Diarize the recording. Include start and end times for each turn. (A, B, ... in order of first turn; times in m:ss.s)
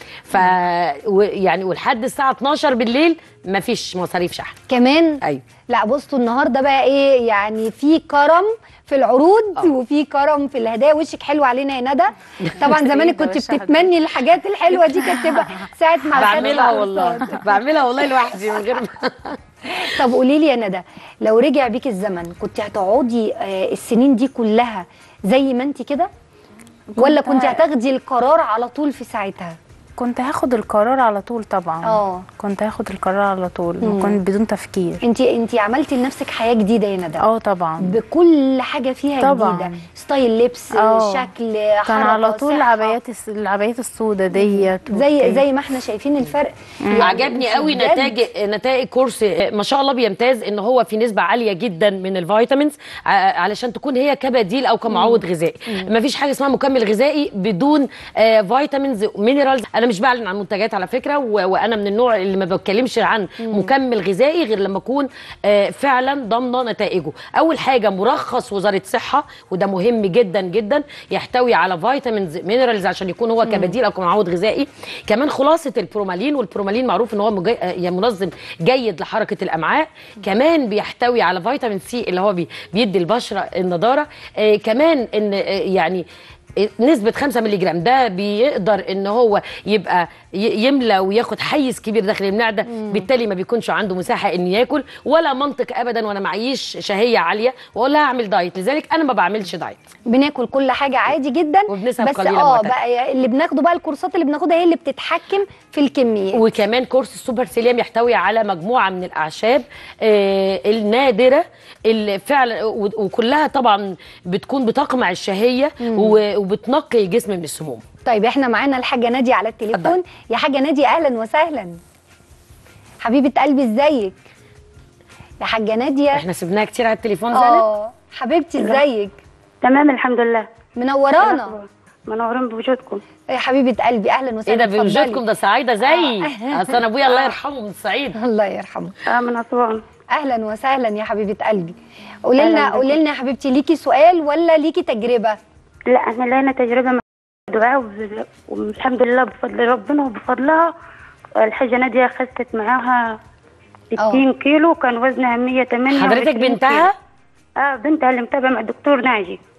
0:00.3-0:04.5 A
0:04.7-0:17.4 B
0:12.4-0:12.7 A
0:12.6-0:13.9 C
0:14.7-0:15.4 C
0:16.1-0:19.4 A
0:16.2-0:16.7 C
0:18.0-0:18.3 B
0:19.7-0:26.1 B
0:27.0-0:27.6 C
0:27.0-0:29.6 B
0:30.0-0:35.0 C
0:31.8-0:32.2 B
0:33.8-0:34.2 B
0:35.0-0:37.2 B
0:37.2-0:38.0 C
0:37.8-0:43.0 B
0:39.2-0:39.8 C
0:40.8-0:41.2 C
0:41.9-0:45.4 C
0:44.3-0:48.2 B
0:47.0-1:26.0 A
0:54.9-0:55.9 B
1:03.4-1:03.7 B
1:13.4-1:13.7 B
1:26.6-1:39.8 A
1:32.6-1:33.0 B
1:40.1-1:46.4 B
1:41.7-1:42.7 A
1:46.3-1:57.8 A
1:55.8-1:56.2 B
1:58.0-2:01.8 B
1:59.7-2:00.0 A
2:03.0-2:04.2 B
2:05.4-2:06.2 B
2:06.1-2:07.6 A
2:07.3-2:09.1 B
2:09.6-2:10.5 D
2:10.8-2:11.5 B
2:11.2-2:13.0 D
2:13.3-2:15.2 B
2:14.4-2:18.2 A
2:15.8-2:17.3 B
2:18.1-2:18.9 B
2:19.1-2:19.8 D
2:20.1-2:21.8 B
2:22.3-2:25.4 B
2:22.4-2:23.0 D
2:25.9-2:30.7 D
2:31.4-2:33.2 D
2:34.0-2:36.9 D
2:34.0-2:34.2 B
2:35.9-2:36.9 A
2:37.6-2:39.4 D